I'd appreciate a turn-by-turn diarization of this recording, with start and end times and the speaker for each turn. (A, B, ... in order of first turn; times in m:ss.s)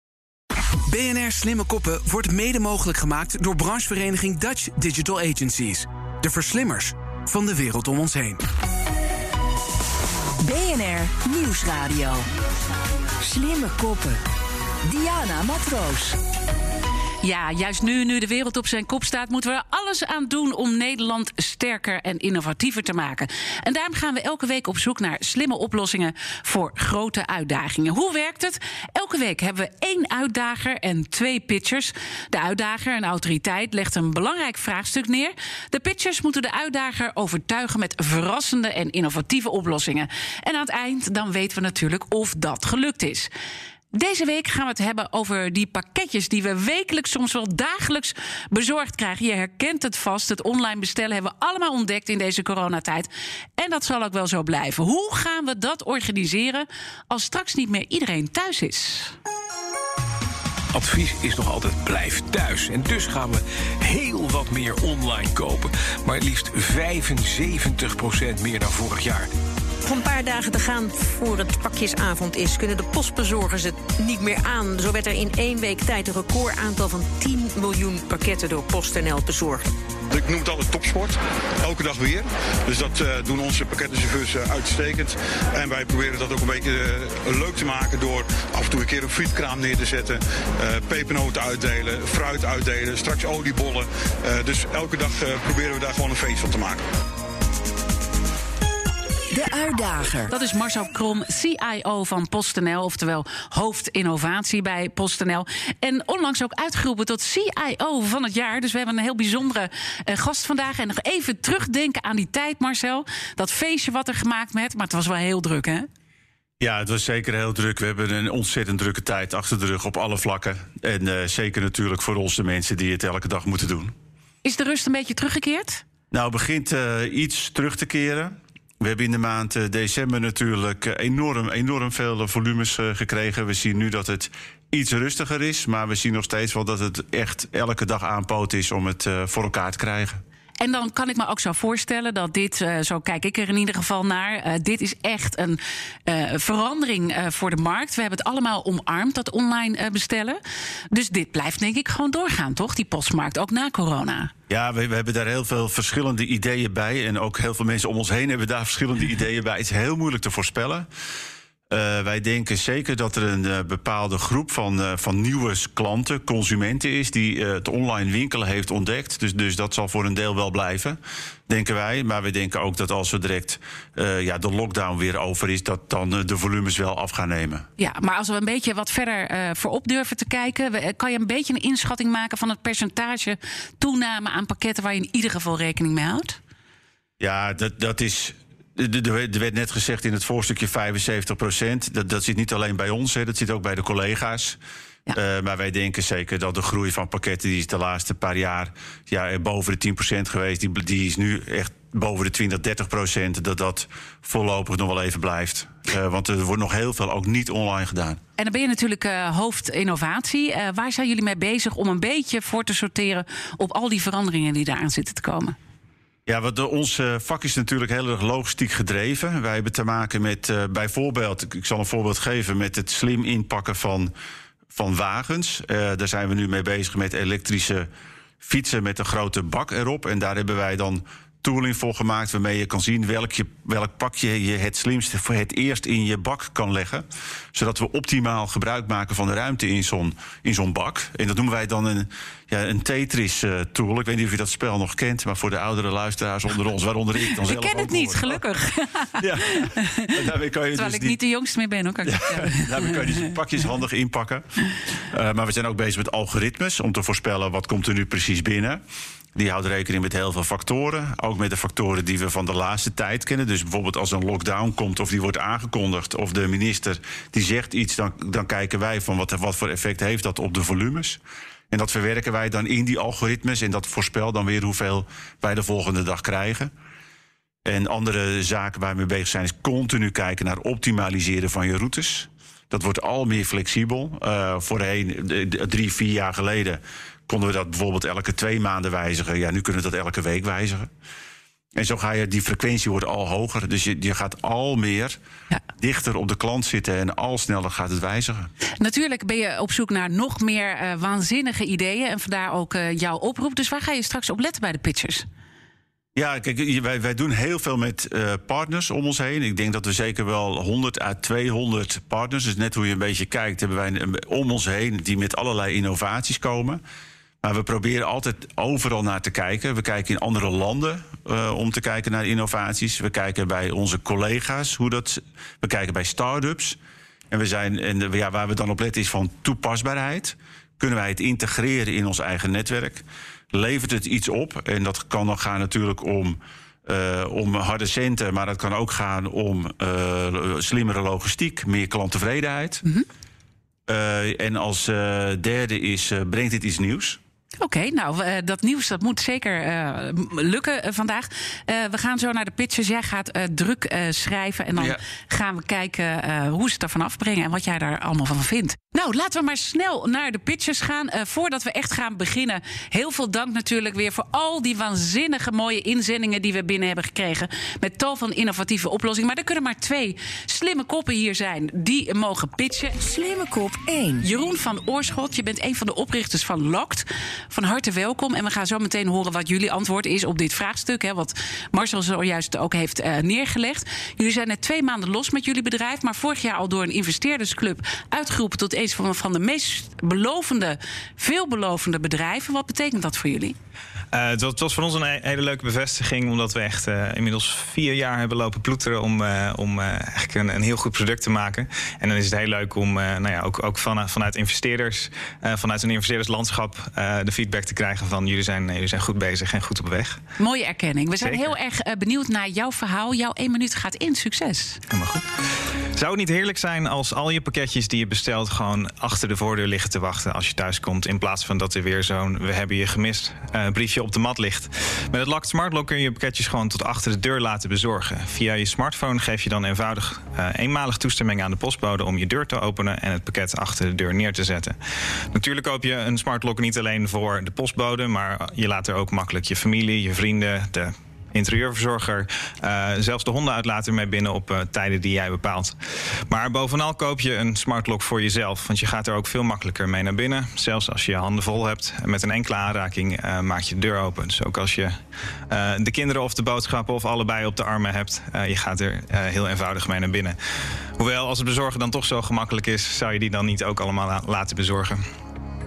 0:00.9-0:08.4 A
0:10.4-0:12.2 B
0:13.2-0:14.2 B
0:14.8-0:16.2 B
0:17.2-0:43.3 C
0:43.9-0:59.1 C
1:00.7-1:09.3 D
1:09.8-1:19.6 E
1:20.1-1:36.8 F
1:39.3-1:40.3 B
1:40.3-1:55.9 C
1:56.6-2:03.9 G
2:04.4-2:05.8 C
2:06.1-2:20.2 G
2:20.6-2:30.4 C
2:30.9-2:34.3 C
2:34.5-2:40.9 G
2:41.7-2:57.6 G
2:57.8-3:06.4 C
3:07.2-3:14.6 G
3:15.1-3:28.2 G
3:28.4-3:35.6 C
3:36.3-3:44.1 G
3:44.7-3:47.9 G
3:48.4-4:08.4 G
4:07.4-4:10.1 C
4:09.2-4:11.2 G
4:10.7-4:13.0 C
4:12.1-4:14.4 G
4:15.1-4:18.8 G
4:19.3-4:31.2 G
4:31.7-4:36.7 G
4:37.6-4:50.9 G
4:51.8-4:55.2 G
4:55.8-4:58.5 G
4:58.8-5:05.2 C
5:06.2-5:16.8 G
5:17.4-5:26.8 G
5:27.3-5:42.8 G
5:43.9-5:47.2 G
5:47.6-6:13.0 C
6:13.0-6:14.3 B
6:14.2-6:33.5 C
6:34.1-6:50.2 H
6:50.4-6:54.8 C
6:51.2-6:51.5 H
6:54.9-6:55.3 H
6:55.9-7:14.8 H
7:15.3-7:25.8 H
7:26.3-7:35.0 H
7:35.5-7:40.4 H
7:41.0-7:45.0 H